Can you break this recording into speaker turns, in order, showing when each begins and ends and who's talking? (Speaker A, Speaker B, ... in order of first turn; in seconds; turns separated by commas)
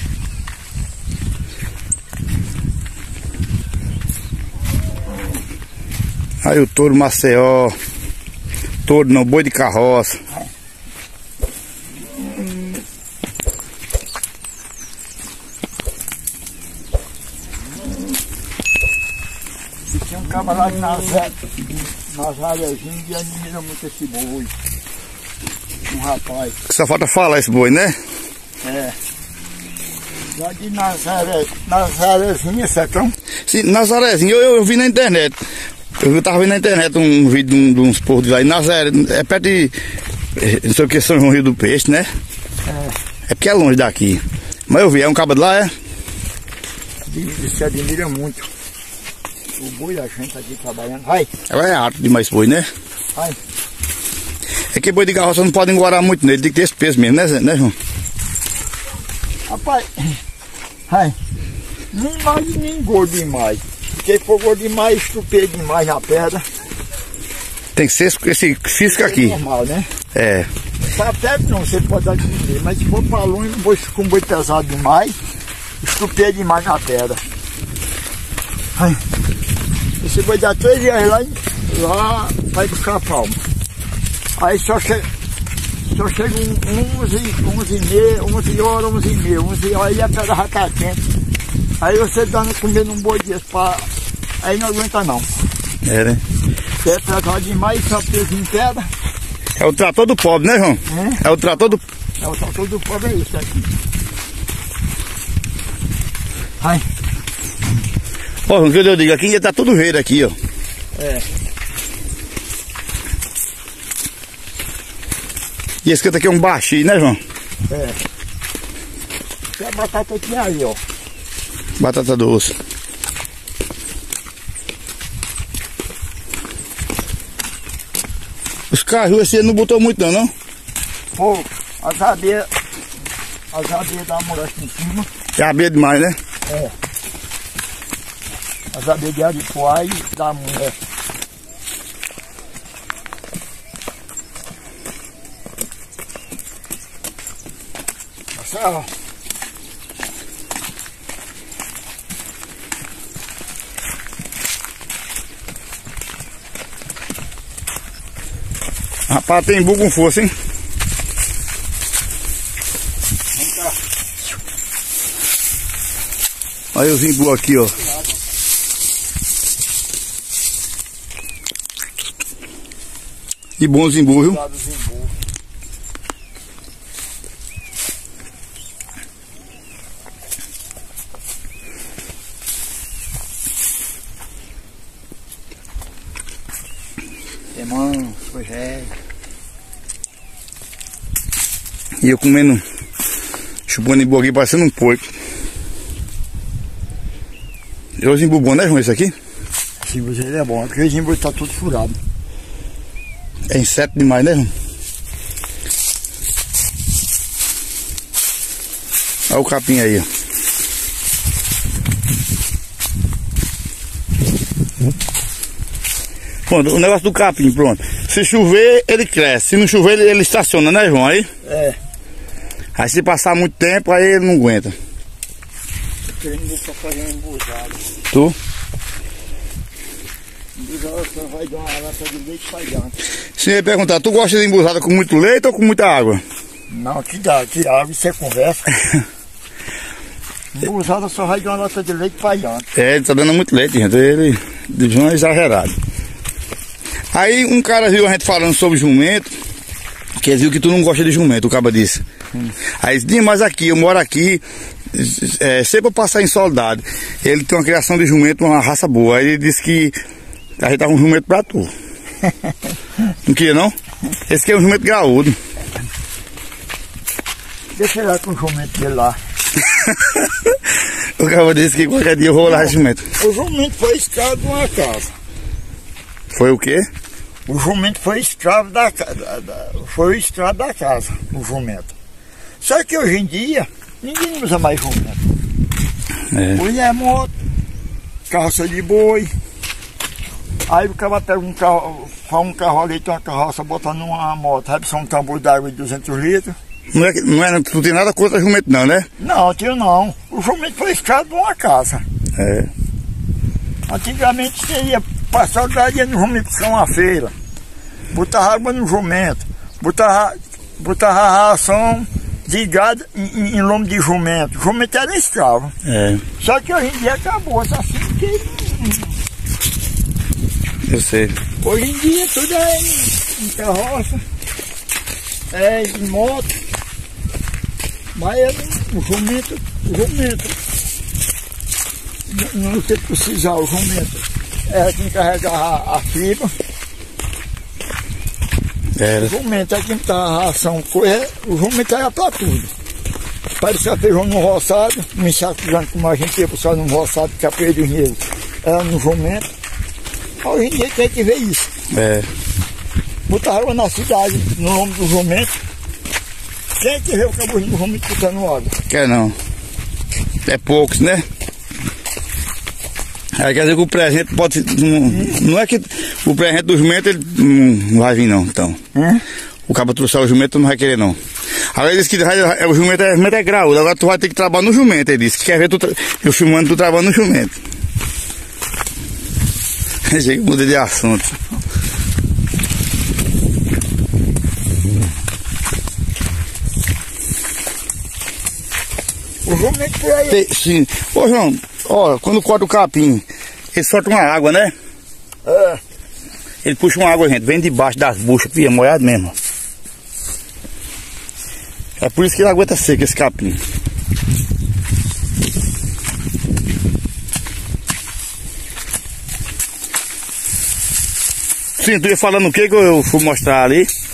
Speaker A: 6.4-7.8, Speaker A: 8.9-10.2, Speaker B: 19.9-24.5, Speaker B: 25.9-26.6, Speaker A: 26.7-28.0, Speaker B: 28.6-29.0, Speaker B: 30.3-33.2, Speaker A: 33.5-35.4, Speaker A: 36.0-39.8, Speaker A: 40.4-42.1, Speaker B: 42.6-43.0, Speaker A: 43.3-45.7, Speaker B: 47.1-48.5, Speaker B: 49.6-51.3, Speaker A: 51.5-52.7, Speaker A: 54.7-57.8, Speaker B: 59.5-60.2, Speaker B: 60.9-61.2, Speaker B: 61.9-66.4, Speaker A: 67.8-69.4, Speaker B: 68.8-69.9, Speaker A: 70.1-70.5, Speaker B: 70.9-75.2, Speaker B: 75.8-77.2, Speaker B: 78.8-79.0, Speaker B: 80.0-83.4, Speaker B: 84.4-85.1, Speaker B: 85.9-91.0, Speaker B: 91.8-93.9, Speaker B: 94.4-95.3, Speaker A: 95.8-96.2, Speaker B: 96.8-98.9, Speaker A: 99.6-101.8, Speaker B: 100.9-101.2, Speaker B: 102.2-103.7, Speaker A: 108.5-110.3, Speaker B: 111.0-111.2, Speaker A: 115.8-117.2, Speaker B: 117.7-118.0, Speaker B: 119.6-120.8, Speaker A: 121.8-122.5, Speaker A: 128.7-130.3, Speaker B: 131.1-132.5, Speaker B: 133.5-135.1, Speaker A: 135.4-136.2, Speaker B: 136.5-136.7, Speaker B: 138.7-140.8, Speaker B: 148.3-148.9, Speaker A: 159.1-160.3, Speaker A: 166.7-167.8, Speaker A: 173.6-174.4, Speaker B: 174.3-175.1, Speaker B: 187.6-188.9, Speaker A: 192.0-192.6, Speaker A: 193.7-195.0, Speaker A: 198.0-199.1, Speaker B: 199.8-202.0, Speaker A: 203.5-204.5, Speaker A: 209.3-210.1, Speaker A: 216.5-221.3, Speaker B: 221.4-221.8, Speaker A: 222.8-224.7, Speaker B: 226.1-227.8, Speaker A: 228.1-228.4, Speaker B: 230.6-232.9, Speaker A: 233.4-236.2, Speaker B: 236.7-238.8, Speaker B: 240.5-242.7, Speaker A: 242.8-245.8, Speaker A: 247.1-249.3, Speaker A: 250.2-252.0, Speaker A: 252.8-254.4, Speaker A: 254.9-259.9, Speaker A: 260.6-261.7, Speaker A: 263.3-263.7, Speaker A: 264.3-265.4, Speaker B: 267.8-269.2, Speaker A: 269.6-270.5, Speaker A: 271.2-273.0, Speaker B: 272.4-275.1, Speaker A: 276.3-276.9, Speaker B: 277.5-281.9, Speaker B: 282.6-285.2, Speaker A: 286.3-286.6, Speaker B: 286.6-287.3, Speaker B: 288.3-289.3, Speaker B: 290.7-296.6, Speaker A: 296.9-299.1, Speaker B: 299.2-302.0, Speaker A: 302.4-302.7, Speaker B: 303.9-307.3, Speaker B: 308.1-315.7, Speaker A: 315.9-316.2, Speaker B: 316.4-319.1, Speaker A: 320.9-321.4, Speaker B: 321.6-324.2, Speaker B: 325.5-326.6, Speaker B: 328.1-330.6, Speaker B: 332.3-336.5, Speaker A: 339.0-339.3, Speaker B: 339.2-342.7, Speaker B: 343.6-349.5, Speaker B: 350.4-351.7, Speaker A: 351.9-352.3, Speaker B: 353.3-355.5, Speaker B: 356.8-358.8, Speaker A: 358.9-359.4, Speaker A: 360.5-361.2, Speaker A: 363.4-368.8, Speaker B: 365.1-365.4, Speaker B: 368.9-369.2, Speaker A: 369.7-371.2, Speaker A: 371.7-377.6, Speaker A: 380.1-381.3, Speaker B: 389.4-390.4, Speaker A: 390.3-394.7, Speaker B: 395.4-395.8, Speaker A: 396.6-399.4, Speaker A: 402.0-403.6, Speaker A: 411.8-413.9